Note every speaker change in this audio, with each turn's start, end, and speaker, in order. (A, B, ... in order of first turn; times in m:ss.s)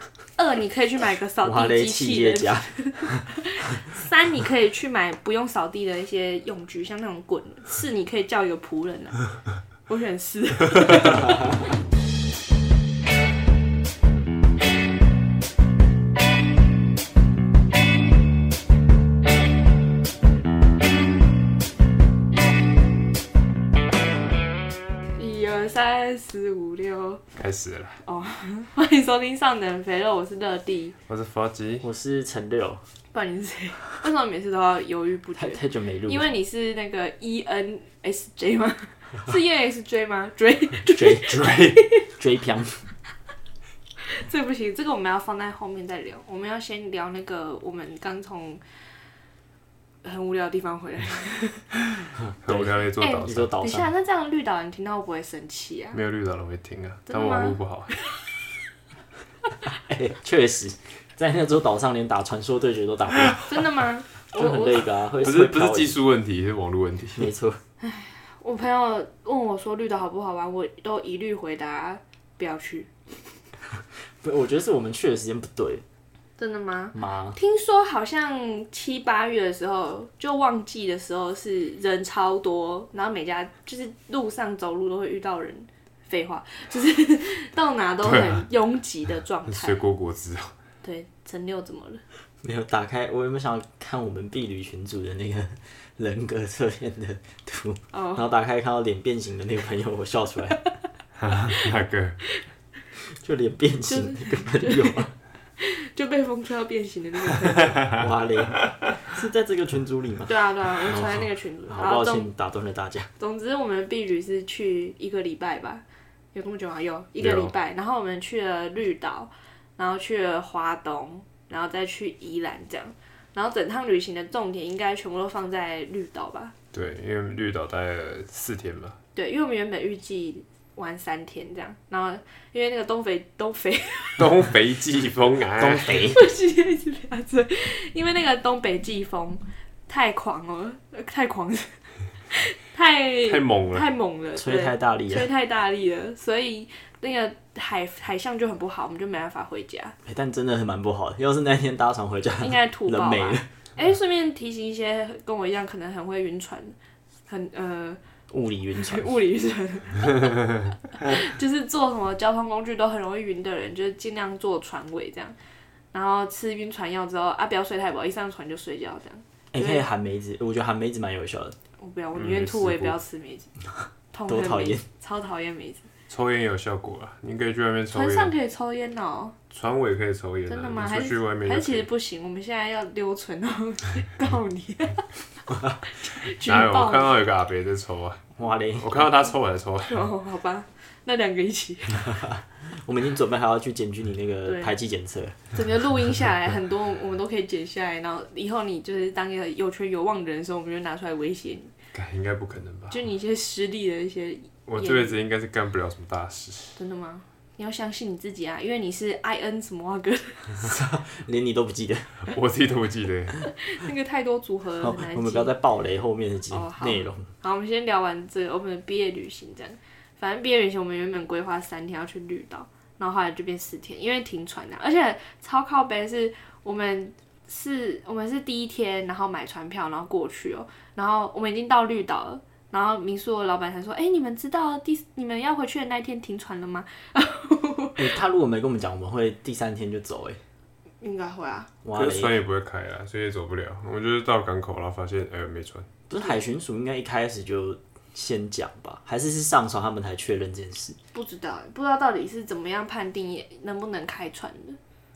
0:00.4-0:09.2 A
0:01.4-0:03.3 B
0:09.9-0:11.7 A
0:11.1-0:11.6 B
0:25.2-0:27.2 A
0:27.3-0:28.0 C
0:28.0-0:31.0 A
0:31.1-0:31.9 C
0:31.8-0:32.8 B
0:33.1-0:42.0 A
0:35.4-0:36.3 B
0:40.9-0:42.8 B
0:44.0-0:48.6 A
0:50.0-0:51.7 A
0:52.4-0:53.6 C
0:52.4-0:53.9 B
0:53.0-0:56.0 A
0:55.9-0:58.0 C
0:57.1-0:57.6 A
0:59.7-1:03.6 B
1:03.3-1:04.9 A
1:04.3-1:06.0 B
1:05.2-1:07.3 C
1:07.2-1:07.6 B
1:07.8-1:12.9 A
1:13.7-1:15.8 B
1:16.4-1:29.8 A
1:16.9-1:17.4 B
1:28.0-1:28.5 C
1:29.5-1:30.5 C
1:30.8-1:32.0 A
1:32.4-1:40.6 B
1:37.9-1:38.2 A
1:41.2-1:42.2 C
1:43.0-1:45.1 B
1:43.9-1:45.1 A
1:45.6-1:47.9 A
1:47.9-1:53.1 B
1:50.3-1:52.3 A
1:53.2-2:06.5 A
1:57.2-1:57.5 C
2:06.7-2:09.0 C
2:09.2-2:14.5 A
2:14.2-2:16.1 C
2:15.6-2:16.2 B
2:16.1-2:30.0 A
2:23.3-2:23.9 C
2:24.4-2:25.3 B
2:30.0-2:33.5 B
2:32.4-2:36.8 A
2:37.3-2:38.0 A
2:38.3-2:39.1 B
2:38.8-2:45.4 A
2:45.9-2:49.8 A
2:49.5-2:51.6 B
2:51.8-2:53.5 A
2:52.2-2:53.0 C
2:54.1-2:55.9 A
2:54.3-2:54.8 B
2:56.1-2:58.3 C
2:57.9-2:59.4 A
2:59.5-3:01.9 C
3:00.5-3:05.1 A
3:05.5-3:05.8 B
3:06.0-3:07.2 A
3:06.4-3:10.0 C
3:08.4-3:09.0 B
3:09.8-3:12.2 A
3:12.1-3:15.4 B
3:14.4-3:14.7 A
3:15.5-3:21.7 A
3:21.9-3:23.0 C
3:22.9-3:25.2 A
3:24.7-3:26.8 C
3:26.8-3:30.6 A
3:30.5-3:32.3 B
3:32.2-3:33.4 C
3:33.6-3:35.5 A
3:34.8-3:37.3 B
3:36.5-3:58.1 A
3:58.0-4:00.4 B
4:01.0-4:01.7 A
4:01.8-4:02.4 B
4:01.9-4:05.9 C
4:06.1-4:11.0 B
4:11.1-4:14.8 A